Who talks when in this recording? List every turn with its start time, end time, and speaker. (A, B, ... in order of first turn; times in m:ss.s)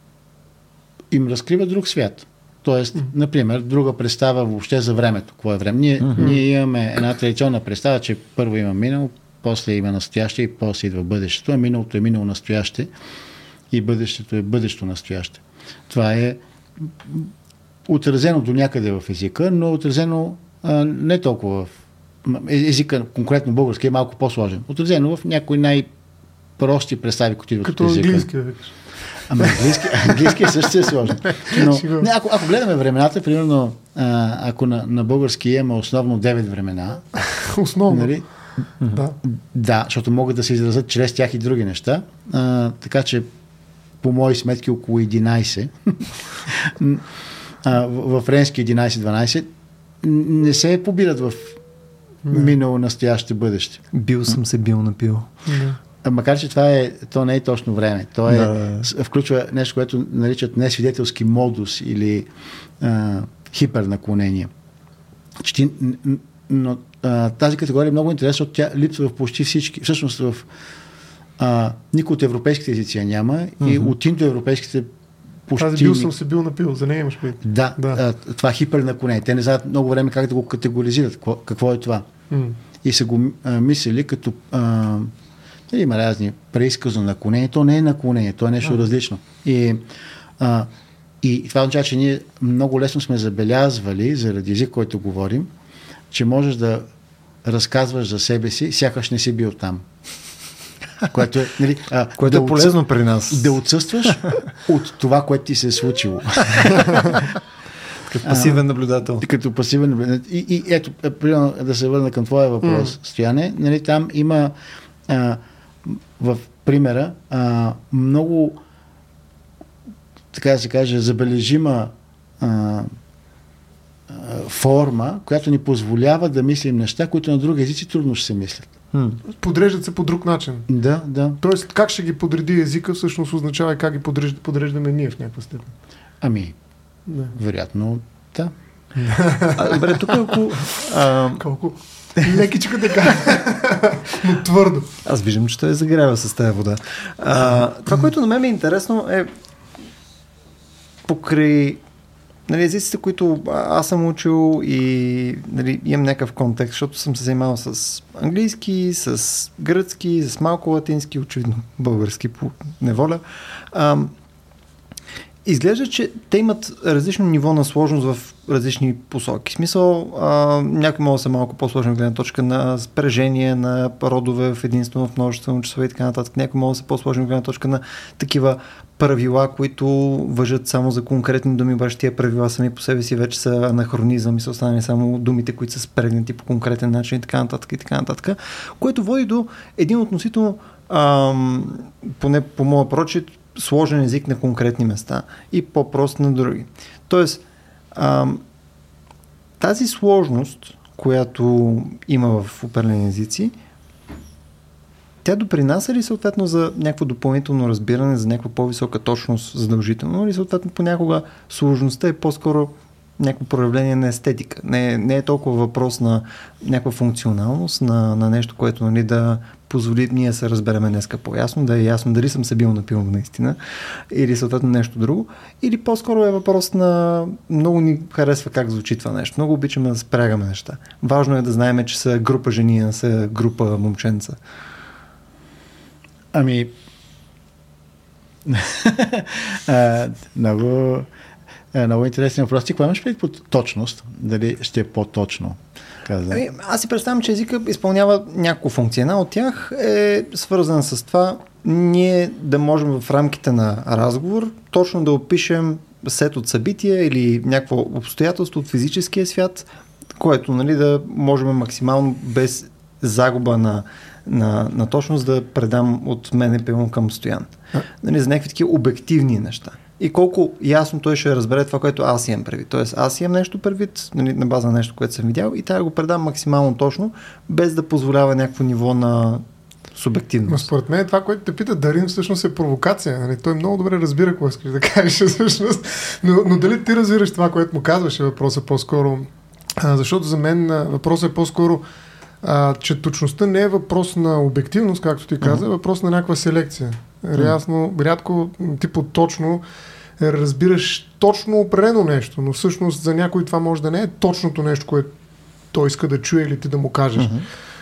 0:01.1-0:12.9 A
0:06.0-0:06.3 B
0:06.2-0:06.4 C
0:13.7-0:17.3 A
0:17.8-0:21.7 A
0:22.2-0:25.9 A
0:26.6-0:28.3 A
0:27.6-0:28.7 C
0:29.3-0:37.0 A
0:29.4-0:30.7 C
0:31.2-0:32.1 C
0:37.2-0:38.1 C
0:37.9-0:38.2 A
0:38.9-0:39.2 C
0:39.2-0:43.3 A
0:44.0-0:47.0 A
0:47.6-0:49.5 A
0:50.0-0:51.6 A
0:52.2-0:52.5 C
0:52.3-0:54.4 A
0:53.9-0:55.3 B
0:55.5-0:55.8 C
0:56.0-1:02.3 A
0:58.3-0:58.9 B
1:02.8-1:04.5 A
1:05.4-1:10.5 A
1:11.4-1:14.9 A
1:13.6-1:13.9 B
1:15.5-1:16.1 A
1:15.6-1:18.0 C
1:17.4-1:22.1 A
1:22.3-1:22.6 C
1:22.8-1:25.1 A
1:25.7-1:29.8 A
1:30.4-1:30.7 A
1:31.2-1:35.5 A
1:36.1-1:36.8 A
1:37.4-1:39.8 A
1:41.1-1:47.2 A
1:42.2-1:43.6 B
1:48.1-1:49.2 B
1:48.2-1:48.6 A
1:49.2-1:54.5 A
1:52.6-1:52.9 C
1:55.1-1:58.6 A
2:00.3-2:02.9 A
2:04.1-2:08.7 A
2:08.9-2:09.2 B
2:09.3-2:10.7 C
2:10.7-2:11.4 A
2:11.4-2:15.7 C
2:16.2-2:16.6 A
2:17.1-2:17.3 C
2:17.3-2:18.5 A
2:19.0-2:20.4 C
2:19.5-2:21.4 B
2:21.4-2:24.9 C
2:25.0-2:29.3 B
2:31.1-2:31.8 B
2:32.5-2:44.1 B
2:45.4-3:17.4 B
3:17.9-3:18.4 B
3:19.6-3:23.5 B
3:25.2-3:43.6 B
3:44.1-3:54.4 B
3:56.3-3:56.7 A
3:58.4-4:01.1 A
4:01.7-4:06.4 A
4:06.3-4:40.7 B
4:40.5-4:51.8 C
4:52.4-4:59.6 C
5:00.2-5:05.1 C
5:05.7-5:07.3 C
5:07.2-5:07.4 B